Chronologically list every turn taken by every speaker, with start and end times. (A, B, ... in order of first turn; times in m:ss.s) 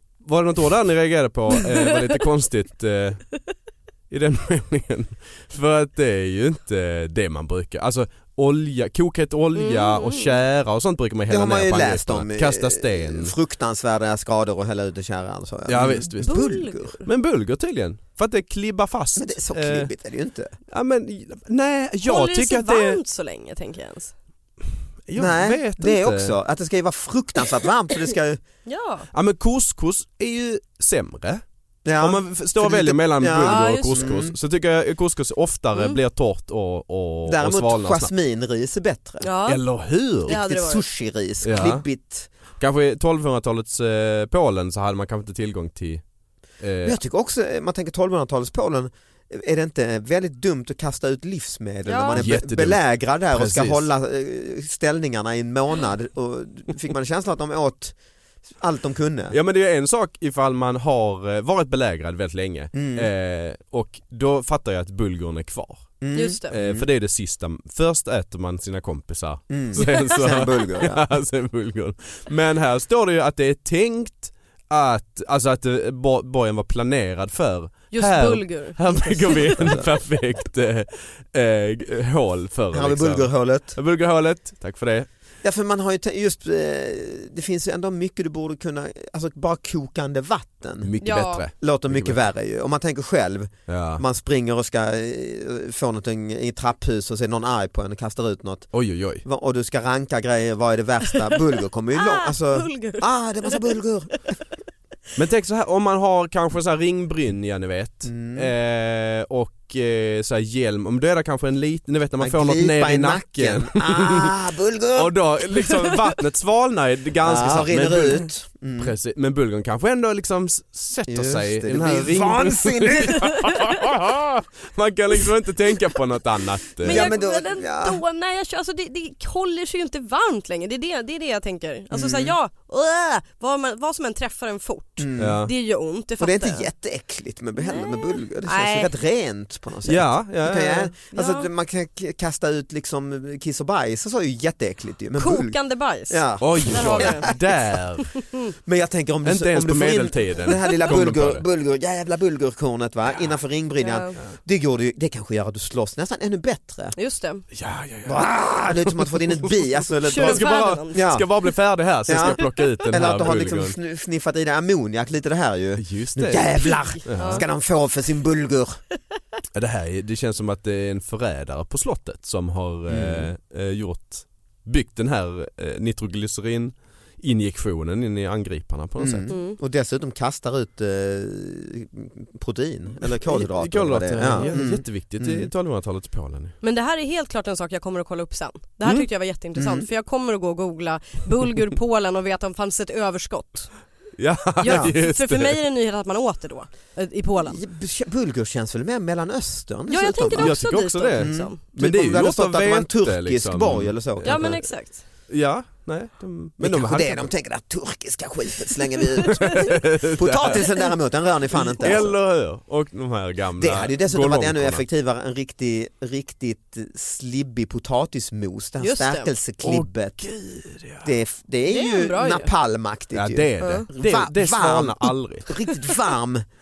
0:00.2-0:03.3 A
0:04.1-0:13.3 A
0:09.5-0:10.3 B
0:11.3-0:17.0 C
0:15.7-0:16.4 A
0:16.2-0:17.0 B
0:17.0-0:19.9 A
0:19.2-0:20.5 C
0:20.7-0:23.0 A
0:22.0-0:24.1 B
0:25.0-0:26.4 A
0:25.2-0:28.4 C
0:28.6-0:29.1 B
0:29.1-0:31.4 A
0:31.8-0:34.3 C
0:32.0-0:38.1 A
0:33.4-0:34.1 B
0:37.2-0:39.3 C
0:39.2-0:39.6 B
0:39.5-0:40.4 A
0:40.2-0:40.8 B
0:40.3-0:42.3 C
0:41.4-0:41.8 A
0:42.6-0:46.0 A
0:46.6-0:47.0 A
0:46.8-0:58.0 C
0:51.8-0:52.2 B
0:52.1-0:53.9 A
0:58.6-0:59.4 C
0:59.3-1:25.1 A
1:02.7-1:03.1 C
1:06.0-1:06.9 C
1:06.1-1:06.5 B
1:09.5-1:11.0 C
1:09.8-1:10.1 B
1:17.9-1:19.7 B
1:19.6-1:19.9 C
1:22.7-1:23.8 C
1:25.4-1:30.9 C
1:30.8-1:32.2 A
1:31.0-1:31.4 B
1:31.6-1:44.3 C
1:33.7-1:34.0 A
1:38.7-1:39.2 A
1:41.9-1:43.7 B
1:45.2-1:54.3 A
1:48.0-1:48.5 C
1:52.2-1:55.1 C
1:54.9-1:58.2 A
1:57.2-1:58.9 C
1:58.8-2:07.1 A
2:01.1-2:03.3 C
2:06.8-2:08.0 C
2:06.8-2:16.7 B
2:11.9-2:12.4 C
2:15.0-2:15.4 C
2:15.2-2:15.5 A
2:16.2-2:27.5 C
2:17.6-2:18.9 B
2:19.8-2:20.9 A
2:21.1-2:21.5 B
2:25.2-2:27.4 B
2:26.4-2:28.1 A
2:28.6-2:37.0 C
2:29.2-2:31.4 A
2:33.8-2:34.2 B
2:37.0-2:37.4 B
2:37.5-2:43.8 A
2:38.0-2:41.3 C
2:40.0-2:41.1 B
2:42.0-2:48.8 C
2:42.2-2:42.8 B
2:45.8-2:47.4 A
2:46.9-2:47.4 B
2:49.5-2:59.3 A
2:52.9-2:53.3 C
2:59.0-3:05.5 C
2:59.3-2:59.6 B
3:03.3-3:06.6 A
3:04.3-3:04.6 B
3:06.6-3:13.8 B
3:09.6-3:09.9 C
3:14.2-3:15.6 A
3:14.6-3:17.6 B
3:14.6-3:14.9 C
3:17.4-3:20.6 C
3:19.9-3:21.6 B
3:20.4-3:27.3 A
3:21.2-3:24.5 C
3:24.2-3:25.0 B
3:26.6-3:32.1 C
3:29.4-3:30.6 A
3:31.6-3:32.1 B
3:31.8-3:34.8 A
3:33.6-3:40.3 C
3:38.8-3:39.3 B
3:39.6-3:41.1 A
3:41.0-3:46.4 C
3:41.7-3:42.5 B
3:43.1-3:45.5 A
3:43.6-3:43.8 B